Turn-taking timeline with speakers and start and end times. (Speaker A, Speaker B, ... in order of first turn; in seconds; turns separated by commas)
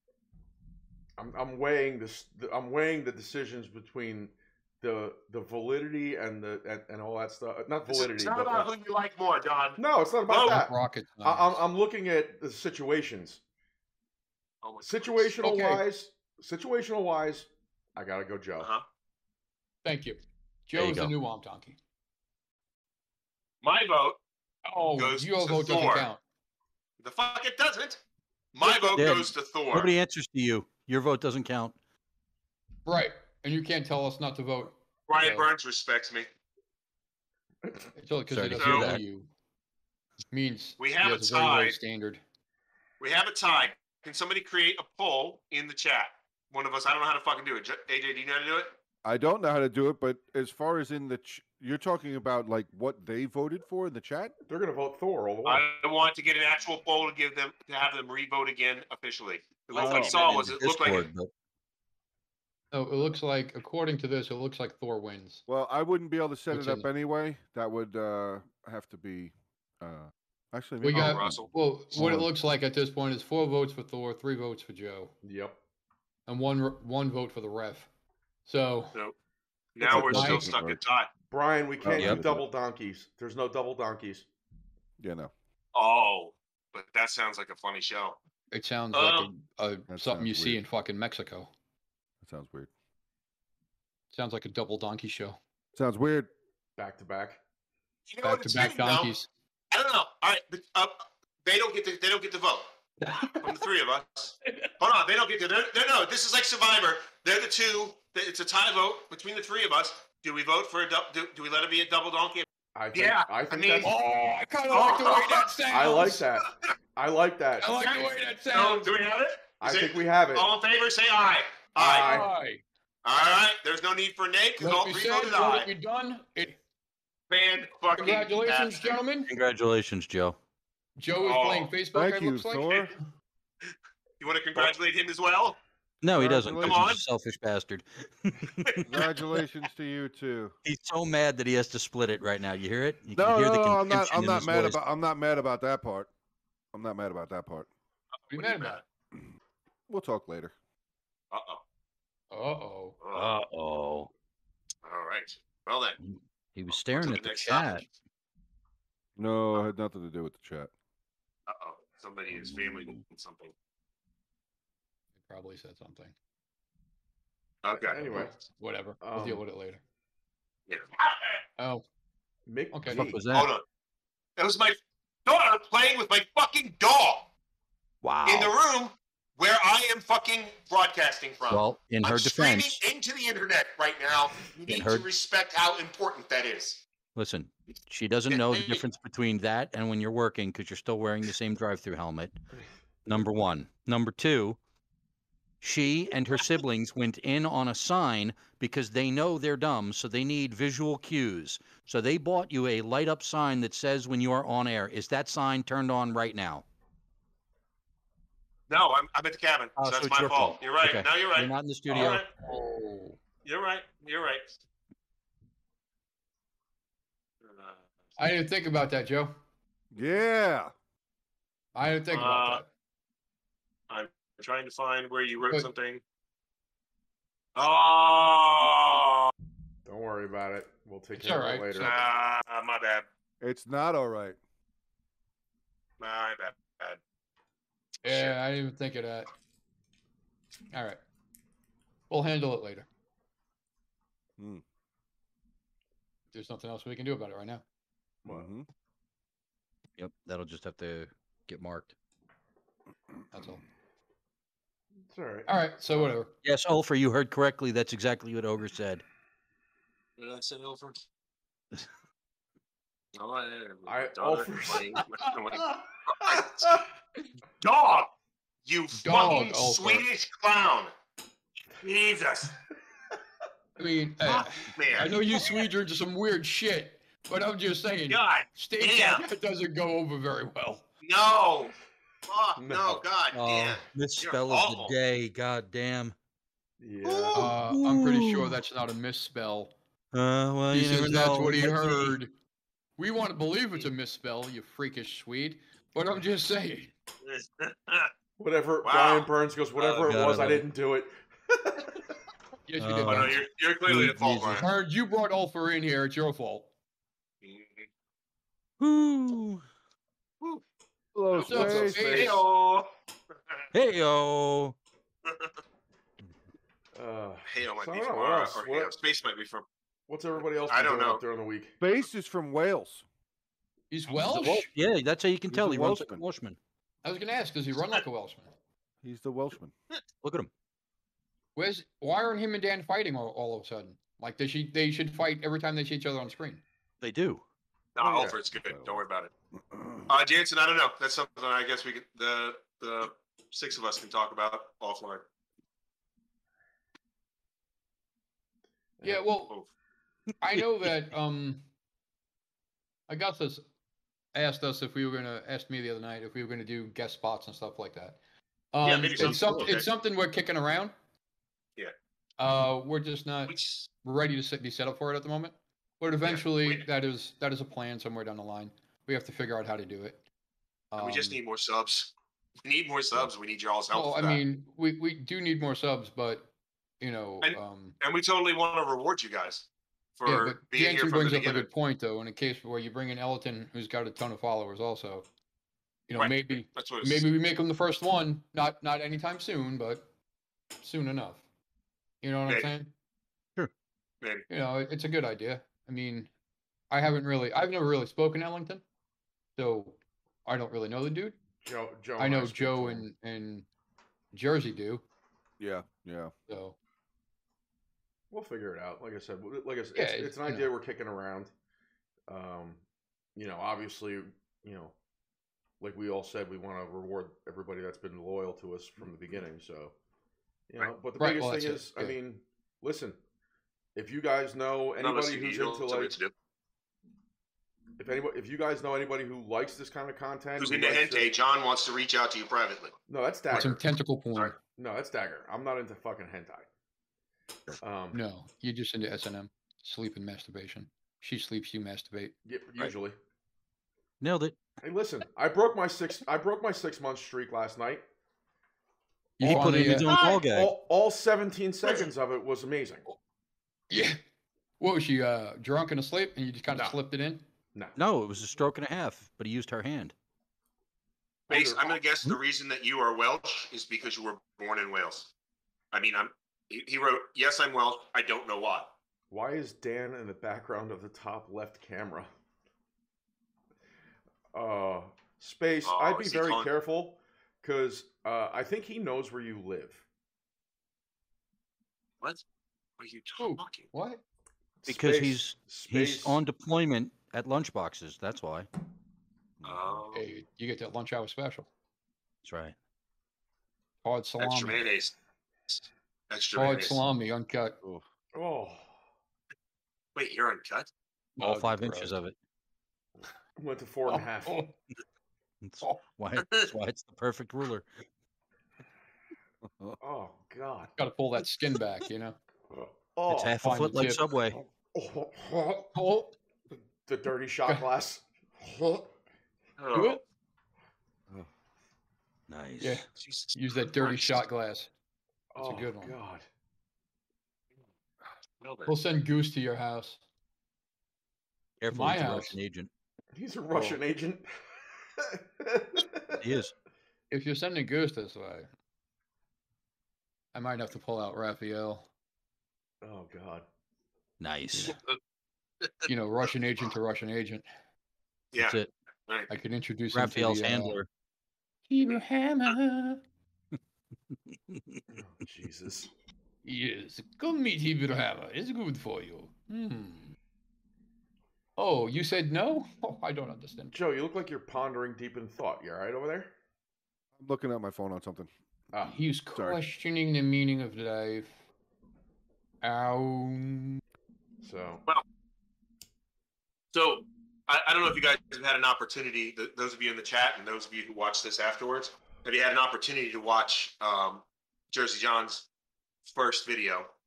Speaker A: 1.2-8.7, Speaker B: 7.9-10.6, Speaker A: 9.8-13.4, Speaker C: 10.4-11.6, Speaker B: 14.6-15.3, Speaker A: 14.8-18.7, Speaker C: 15.4-15.8, Speaker C: 19.8-21.8, Speaker D: 20.7-21.1, Speaker B: 23.6-24.2, Speaker C: 24.6-26.2, Speaker B: 25.0-26.1, Speaker B: 27.0-28.0, Speaker B: 28.5-29.9, Speaker D: 28.9-31.7, Speaker C: 32.9-35.5, Speaker B: 35.1-36.3, Speaker C: 38.0-39.3, Speaker D: 38.3-39.0, Speaker B: 38.6-39.0, Speaker C: 40.3-42.2, Speaker B: 40.8-41.8, Speaker B: 43.0-48.8, Speaker E: 49.0-54.3, Speaker A: 54.5-55.6, Speaker B: 55.4-61.0, Speaker E: 59.7-60.2, Speaker D: 59.8-61.3, Speaker C: 62.7-65.4, Speaker E: 65.5-72.2, Speaker C: 66.5-66.9, Speaker C: 70.8-75.1, Speaker B: 70.9-71.5, Speaker D: 72.0-72.3, Speaker A: 75.2-75.6, Speaker C: 76.3-77.9, Speaker C: 78.5-79.0, Speaker B: 79.8-81.1, Speaker C: 79.9-80.5, Speaker E: 79.9-80.8, Speaker D: 79.9-80.3, Speaker A: 81.3-84.2, Speaker E: 81.8-82.5, Speaker D: 81.9-82.2, Speaker E: 85.0-85.3, Speaker B: 85.7-88.2, Speaker C: 88.5-91.5, Speaker B: 88.9-89.3, Speaker E: 89.9-90.6, Speaker E: 92.2-92.7, Speaker C: 94.1-95.4, Speaker E: 95.7-96.3, Speaker A: 96.8-97.4, Speaker B: 98.1-99.1, Speaker C: 98.2-99.3, Speaker B: 99.7-102.7, Speaker C: 103.0-103.6, Speaker B: 103.4-113.9, Speaker C: 104.5-104.7, Speaker A: 112.7-113.9, Speaker C: 113.8-116.2, Speaker B: 114.7-115.5, Speaker A: 115.7-117.7, Speaker C: 117.6-118.9, Speaker B: 117.6-122.1, Speaker A: 119.6-120.5, Speaker A: 121.8-122.3, Speaker C: 122.0-122.6, Speaker B: 123.0-125.7, Speaker C: 124.6-126.6, Speaker B: 127.3-129.0, Speaker C: 128.0-129.3, Speaker D: 129.3-130.4, Speaker C: 131.0-132.9, Speaker B: 131.2-131.7, Speaker E: 131.9-132.9, Speaker B: 134.2-135.6, Speaker D: 136.0-138.9, Speaker E: 136.1-136.9, Speaker B: 136.4-137.0, Speaker B: 138.6-139.1, Speaker E: 138.9-140.6, Speaker D: 140.6-144.8, Speaker E: 143.2-146.1, Speaker E: 146.7-147.7, Speaker B: 148.3-148.8, Speaker C: 148.3-148.8, Speaker E: 149.9-150.5, Speaker B: 151.3-151.6, Speaker C: 152.3-153.0, Speaker B: 153.0-153.3, Speaker D: 153.1-154.1, Speaker B: 154.8-156.0, Speaker D: 156.0-157.8, Speaker B: 156.7-157.9, Speaker E: 159.2-160.7, Speaker B: 161.5-163.5, Speaker C: 165.2-166.1, Speaker B: 167.6-168.3, Speaker A: 167.8-168.3, Speaker C: 168.1-169.8, Speaker A: 169.0-169.4, Speaker B: 170.7-171.4, Speaker C: 171.6-171.8, Speaker A: 172.5-173.2, Speaker C: 172.7-173.1, Speaker D: 172.9-173.5, Speaker B: 173.3-173.6, Speaker B: 174.4-177.3, Speaker D: 178.0-178.5, Speaker B: 178.2-186.8, Speaker D: 181.5-182.8, Speaker D: 184.7-185.0, Speaker D: 187.2-192.3, Speaker B: 188.3-188.8, Speaker D: 193.1-194.6, Speaker D: 195.6-206.6, Speaker B: 208.7-212.3, Speaker D: 209.8-212.2, Speaker C: 211.9-213.2, Speaker B: 213.4-214.6, Speaker B: 217.4-217.8, Speaker C: 218.2-219.3, Speaker E: 219.9-220.7, Speaker C: 221.7-222.7, Speaker B: 222.1-222.6, Speaker B: 223.9-226.0, Speaker B: 227.6-229.3, Speaker A: 229.8-232.1, Speaker C: 231.1-232.0, Speaker B: 231.8-233.1, Speaker E: 233.4-234.4, Speaker B: 236.0-237.0, Speaker C: 238.0-239.3, Speaker B: 238.0-238.3, Speaker C: 240.7-241.0, Speaker C: 242.1-242.8, Speaker E: 244.4-244.6, Speaker C: 246.3-247.6, Speaker E: 248.3-248.7, Speaker D: 250.0-251.9, Speaker C: 253.3-253.6, Speaker A: 255.1-256.1, Speaker C: 255.5-256.3, Speaker D: 256.4-259.0, Speaker B: 260.2-261.0, Speaker B: 263.1-266.8, Speaker A: 263.9-265.0, Speaker A: 266.3-266.8, Speaker B: 267.6-268.1, Speaker B: 268.6-270.9, Speaker C: 268.9-270.0, Speaker B: 271.8-272.5, Speaker C: 273.8-280.8, Speaker B: 274.3-275.6, Speaker B: 278.1-279.2, Speaker B: 281.0-281.7, Speaker B: 282.2-284.9, Speaker A: 282.6-283.0, Speaker D: 283.3-286.1, Speaker A: 286.8-287.5, Speaker B: 287.0-287.5, Speaker C: 287.3-289.7, Speaker D: 287.6-288.6, Speaker D: 290.1-292.2, Speaker C: 290.7-292.3, Speaker C: 293.0-296.9, Speaker B: 297.2-298.1, Speaker A: 298.4-302.0, Speaker B: 298.8-299.3, Speaker D: 299.8-300.6, Speaker C: 302.7-303.4, Speaker D: 302.8-304.6, Speaker B: 303.1-304.6, Speaker C: 304.4-306.7, Speaker B: 307.4-307.9, Speaker D: 308.8-309.6, Speaker E: 311.1-312.4, Speaker B: 311.3-312.9, Speaker C: 311.5-312.4, Speaker A: 311.5-312.3, Speaker D: 313.7-314.8, Speaker A: 316.9-318.9, Speaker B: 317.4-319.6, Speaker A: 320.1-321.7, Speaker B: 320.7-321.2, Speaker E: 321.8-323.0, Speaker C: 323.9-324.7, Speaker D: 324.1-326.6, Speaker E: 325.5-326.2, Speaker C: 327.0-328.5, Speaker E: 329.0-329.7, Speaker D: 330.2-330.5, Speaker C: 331.6-336.6, Speaker D: 337.0-337.4, Speaker B: 337.9-339.3, Speaker A: 338.0-338.4, Speaker E: 338.6-338.9, Speaker E: 339.7-340.1, Speaker B: 340.1-345.2, Speaker A: 349.0-349.2, Speaker C: 349.0-349.5, Speaker C: 350.4-351.6, Speaker C: 353.1-353.6, Speaker C: 354.3-358.2, Speaker C: 358.7-360.9, Speaker B: 358.8-359.9, Speaker C: 362.4-370.2, Speaker B: 363.5-363.9, Speaker B: 366.2-366.8, Speaker C: 370.9-371.4, Speaker B: 371.0-372.1, Speaker B: 372.6-374.4, Speaker C: 373.9-378.0, Speaker B: 377.4-379.6, Speaker B: 380.2-381.7, Speaker C: 380.2-385.2, Speaker C: 386.1-390.1, Speaker B: 386.2-387.3, Speaker C: 390.8-391.4, Speaker C: 392.2-392.9, Speaker C: 394.5-396.3, Speaker C: 396.9-398.8, Speaker C: 399.6-401.4, Speaker A: 401.6-403.1, Speaker C: 402.2-403.6, Speaker C: 404.3-405.0, Speaker E: 405.6-406.3, Speaker C: 406.5-406.8, Speaker A: 408.3-411.5, Speaker C: 409.9-410.7, Speaker A: 412.3-412.8, Speaker A: 413.4-414.9, Speaker A: 415.8-419.9, Speaker A: 420.7-423.2, Speaker C: 421.2-422.2, Speaker A: 423.9-426.1, Speaker B: 425.0-426.3, Speaker A: 428.0-431.3, Speaker B: 430.6-432.9, Speaker A: 433.1-433.8, Speaker C: 433.5-434.6, Speaker A: 434.6-436.7, Speaker A: 437.8-438.2, Speaker C: 438.1-442.3, Speaker A: 442.4-443.1, Speaker D: 444.2-444.6, Speaker A: 444.8-448.1, Speaker C: 449.4-450.1, Speaker D: 449.4-450.7, Speaker A: 449.4-453.0, Speaker B: 450.1-450.3, Speaker B: 451.8-452.1, Speaker C: 453.9-454.2, Speaker C: 454.8-457.4, Speaker A: 456.7-457.0, Speaker D: 457.9-460.1, Speaker A: 461.5-462.0, Speaker B: 461.5-465.3, Speaker B: 465.9-468.9, Speaker A: 469.3-472.3, Speaker A: 474.5-480.0, Speaker B: 475.8-476.7, Speaker B: 483.0-483.9, Speaker C: 483.4-484.2, Speaker A: 484.8-486.4, Speaker D: 484.9-488.7, Speaker E: 489.6-490.0, Speaker B: 489.6-490.2, Speaker C: 490.1-491.7, Speaker D: 492.4-492.7, Speaker C: 494.0-494.8, Speaker B: 494.4-495.1, Speaker B: 495.7-497.0, Speaker C: 496.5-497.8, Speaker A: 498.3-498.9, Speaker B: 500.1-500.9, Speaker C: 501.4-502.1, Speaker D: 501.4-502.3, Speaker A: 503.6-504.6, Speaker C: 504.1-504.7, Speaker D: 505.6-507.9, Speaker B: 506.4-506.7, Speaker A: 510.0-510.9, Speaker C: 511.0-512.4, Speaker A: 512.7-513.8, Speaker D: 513.3-514.6, Speaker C: 513.6-514.4, Speaker A: 514.9-515.9, Speaker C: 515.9-516.3, Speaker A: 517.0-519.1, Speaker B: 519.8-520.2, Speaker C: 519.9-520.2, Speaker D: 522.5-523.0, Speaker C: 522.8-524.9, Speaker B: 523.2-524.4, Speaker A: 525.5-526.4, Speaker C: 525.6-526.2, Speaker B: 528.6-528.9, Speaker C: 528.9-530.2, Speaker D: 531.8-532.9, Speaker C: 531.9-532.5, Speaker A: 533.3-534.5, Speaker A: 535.2-536.4, Speaker D: 536.4-536.7, Speaker C: 537.3-538.7, Speaker C: 540.5-542.1, Speaker A: 543.0-543.6, Speaker D: 544.4-545.0, Speaker C: 546.0-547.6, Speaker B: 548.5-549.5, Speaker D: 548.6-548.9, Speaker C: 549.5-551.0, Speaker D: 550.1-551.1, Speaker C: 551.9-553.2, Speaker D: 554.5-555.0, Speaker A: 555.1-556.1, Speaker C: 556.6-560.4, Speaker C: 561.8-564.0, Speaker A: 563.9-566.5, Speaker E: 567.4-568.5, Speaker C: 569.0-571.5, Speaker C: 572.8-574.0, Speaker A: 574.6-575.0, Speaker B: 576.9-585.7, Speaker B: 586.2-587.1